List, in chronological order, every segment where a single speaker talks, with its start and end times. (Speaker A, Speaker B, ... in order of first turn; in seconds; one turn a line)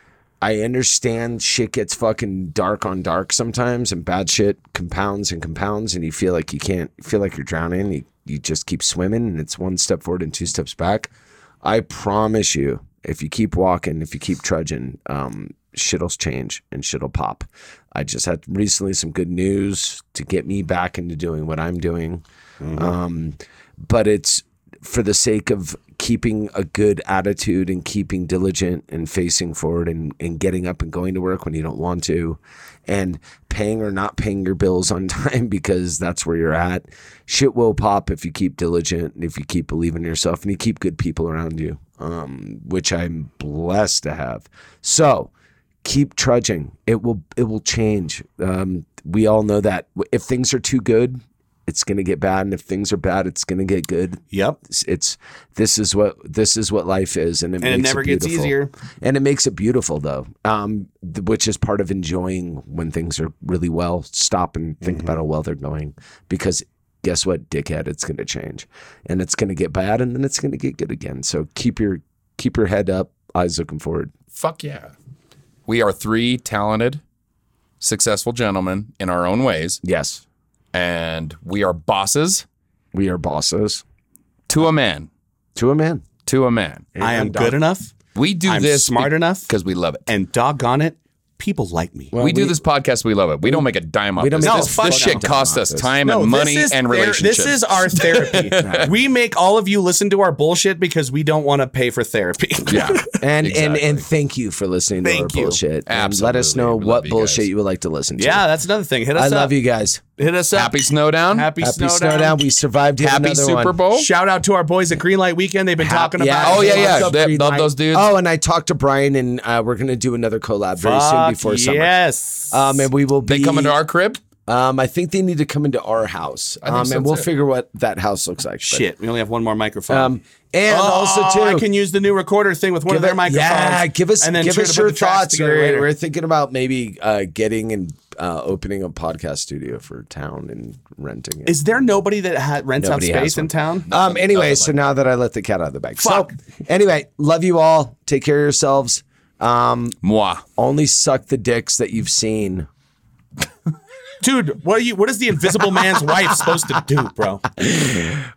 Speaker A: 0.4-11.1
Speaker A: 11.6-45.3
Speaker B: 22.6-22.9
Speaker A: 45.8-74.1
Speaker B: 54.3-54.6
Speaker B: 57.6-58.7
Speaker B: 64.8-65.1
Speaker C: 74.3-74.9
Speaker C: 75.7-77.0
Speaker C: 77.8-79.8
Speaker A: 79.8-80.2
Speaker C: 80.7-82.4
Speaker A: 82.9-83.8
Speaker C: 84.5-85.1
Speaker A: 85.5-86.1
Speaker C: 86.2-86.9
Speaker A: 86.9-87.6
Speaker B: 87.0-87.9
Speaker C: 88.1-90.0
Speaker B: 88.5-89.5
Speaker B: 90.1-92.1
Speaker A: 92.1-92.6
Speaker C: 92.2-98.9
Speaker A: 93.4-95.9
Speaker B: 94.4-95.2
Speaker B: 96.0-103.1
Speaker A: 98.6-98.9
Speaker C: 102.7-104.0
Speaker A: 103.2-108.5
Speaker B: 105.0-105.6
Speaker C: 105.9-107.5
Speaker B: 108.2-109.5
Speaker A: 109.1-110.0
Speaker B: 110.2-112.4
Speaker C: 110.5-111.5
Speaker A: 111.6-113.8
Speaker C: 113.0-114.1
Speaker B: 113.9-117.1
Speaker A: 115.8-122.0
Speaker C: 116.4-118.1
Speaker B: 120.8-122.9
Speaker A: 122.5-123.8
Speaker C: 123.2-124.2
Speaker A: 124.5-128.9
Speaker C: 126.6-127.3
Speaker B: 128.6-130.1
Speaker A: 129.9-131.7
Speaker B: 130.7-135.9
Speaker A: 132.9-141.7
Speaker B: 141.4-144.0
Speaker A: 142.8-150.0
Speaker C: 144.3-144.6
Speaker B: 146.0-146.3
Speaker C: 150.0-150.4
Speaker A: 150.6-152.7
Speaker B: 154.2-157.4
Speaker A: 157.6-158.1